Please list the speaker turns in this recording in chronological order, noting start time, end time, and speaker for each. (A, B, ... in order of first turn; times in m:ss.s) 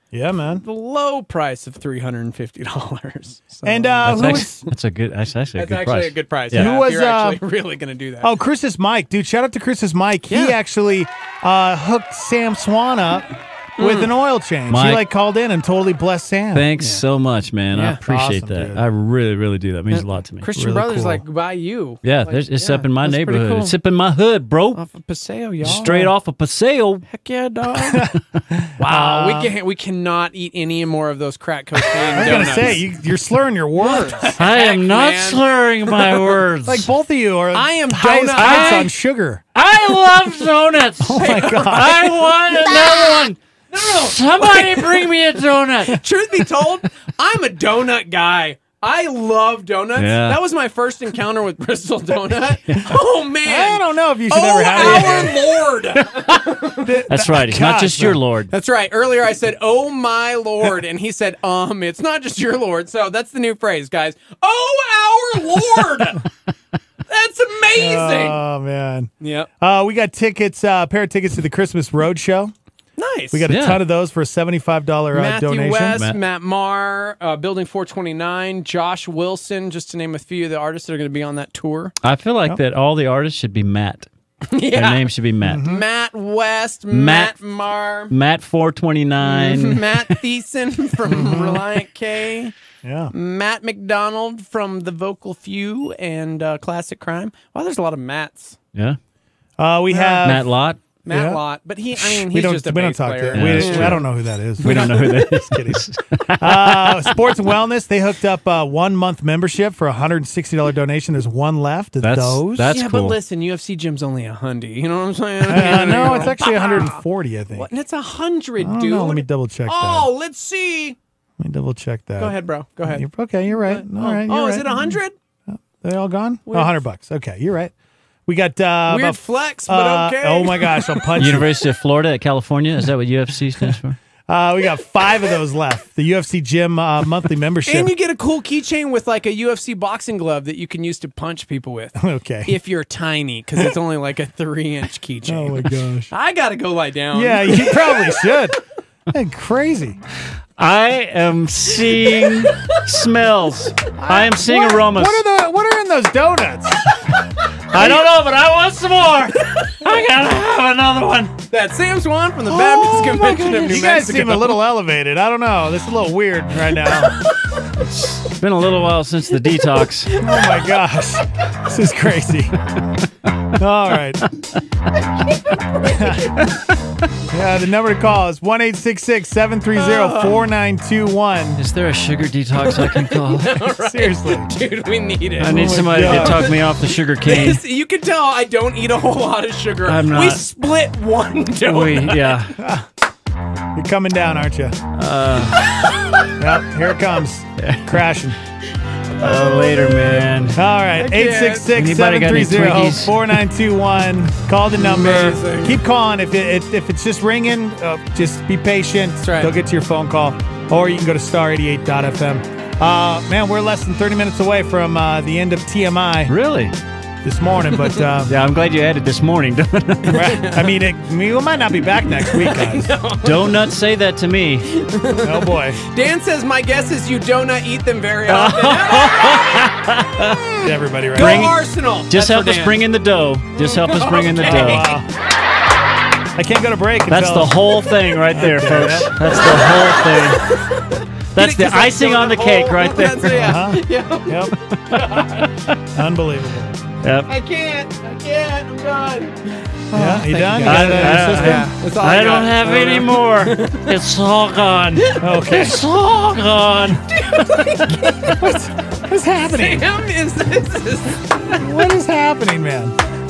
0:00.1-0:00.6 A
0:00.6-0:04.7 B
0:03.6-0:04.6 A
0:04.0-0:06.7 C
0:05.6-0:08.3 B
0:06.5-0:07.4 A
0:08.2-0:16.7 A
0:10.3-0:10.5 B
0:13.8-0:14.1 B
0:14.7-0:15.0 C
0:16.5-0:20.4 C
0:17.7-0:18.0 B
0:18.0-0:18.8 A
0:19.9-0:23.7 B
0:20.5-0:21.2 A
0:22.0-0:24.8 C
0:24.7-0:26.0 B
0:25.6-0:27.0 C
0:25.6-0:26.1 A
0:27.1-0:28.1 B
0:27.8-0:29.5 A
0:28.8-0:32.8 B
0:32.1-0:34.4 A
0:32.2-0:32.5 C
0:33.8-0:35.4 B
0:34.4-0:36.9 C
0:36.6-0:39.4 A
0:37.5-0:38.9 B
0:38.4-0:38.9 C
0:39.5-0:46.0 C
0:41.0-0:42.0 A
0:41.2-0:42.9 B
0:43.7-0:45.1 B
0:45.9-0:57.0 B
0:50.0-0:50.4 C
0:53.4-0:55.6 A
0:54.8-0:55.3 C
0:56.8-0:58.2 A
0:57.1-0:58.5 C
0:58.5-1:06.3 B
1:07.1-1:08.4 B
1:07.7-1:12.5 A
1:09.2-1:09.5 B
1:13.0-1:13.5 B
1:13.3-1:16.0 A
1:13.5-1:13.8 C
1:15.1-1:21.9 B
1:15.9-1:16.2 C
1:22.0-1:24.1 C
1:24.5-1:25.1 B
1:24.7-1:25.7 C
1:25.4-1:25.8 A
1:25.6-1:28.1 B
1:26.9-1:27.3 C
1:28.1-1:30.2 C
1:29.2-1:32.5 B
1:31.1-1:31.6 A
1:32.8-1:33.1 A
1:33.1-1:38.6 B
1:38.7-1:39.0 C
1:39.6-1:40.5 A
1:39.9-1:40.4 B
1:40.2-1:40.8 C
1:41.0-1:44.0 B
1:41.1-1:45.9 A
1:43.3-1:44.0 C
1:44.6-1:47.1 C
1:44.6-1:45.3 B
1:46.4-1:52.8 A
1:52.0-1:53.2 C
1:52.7-1:57.0 B
1:55.4-1:57.7 A
1:57.5-2:01.0 B
1:58.6-2:00.1 A
2:01.4-2:05.0 A
2:02.2-2:05.1 B
2:05.5-2:07.7 A
2:08.3-2:11.6 A
2:08.9-2:11.0 B
2:11.2-2:14.0 C
2:14.3-2:17.9 A
2:17.6-2:28.3 B
2:22.0-2:22.6 A
2:25.2-2:26.1 A
2:27.1-2:28.6 A
2:29.1-2:30.0 A
2:30.6-2:35.2 C
2:32.4-2:32.7 B
2:34.0-2:36.9 A
2:37.7-2:41.3 C
2:37.7-2:38.1 A
2:41.5-2:44.6 B
2:42.5-2:47.2 A
2:47.9-2:50.1 C
2:50.1-2:50.6 B
2:50.1-2:52.5 A
2:53.5-2:54.2 A
2:55.8-2:56.4 A
2:57.3-3:01.6 A
2:59.8-3:00.4 B
3:01.6-3:03.6 C
3:02.7-3:06.6 B
3:03.8-3:04.5 A
3:05.4-3:07.6 C
3:05.5-3:06.5 A
3:07.2-3:12.3 B
3:09.8-3:10.4 C
3:11.6-3:12.6 C
3:12.6-3:12.8 A
3:13.7-3:14.8 A
3:14.9-3:15.7 C
3:16.4-3:18.4 A
3:17.6-3:18.0 C
3:19.2-3:20.6 C
3:20.5-3:36.3 A
3:21.0-3:21.7 B
3:21.7-3:23.3 C
3:24.7-3:25.8 B
3:29.2-3:29.5 B
3:36.3-3:36.7 C
3:37.2-3:38.3 A
3:38.3-3:40.4 C
3:40.1-3:42.9 A
3:40.1-3:40.7 B
3:42.2-3:43.6 B
3:43.2-3:44.7 C
3:44.7-3:49.7 B
3:45.2-3:45.8 A
3:48.3-3:50.4 C
3:50.6-3:51.5 A
3:51.1-3:52.8 B
3:51.1-3:54.9 C
3:53.6-3:55.0 B
3:54.4-3:55.1 A
3:56.4-3:57.6 A
3:57.1-4:00.5 C
3:58.3-3:59.3 A
3:59.4-4:05.5 B
4:01.3-4:03.7 C
4:03.3-4:04.6 A
4:04.5-4:05.8 C
4:05.9-4:06.7 A
4:07.0-4:07.3 C
4:07.3-4:13.9 B
4:09.9-4:11.7 A
4:10.6-4:17.1 C
4:15.2-4:15.8 A
4:17.1-4:18.7 B
4:18.4-4:19.8 A
4:19.4-4:21.6 B
4:21.5-4:23.0 A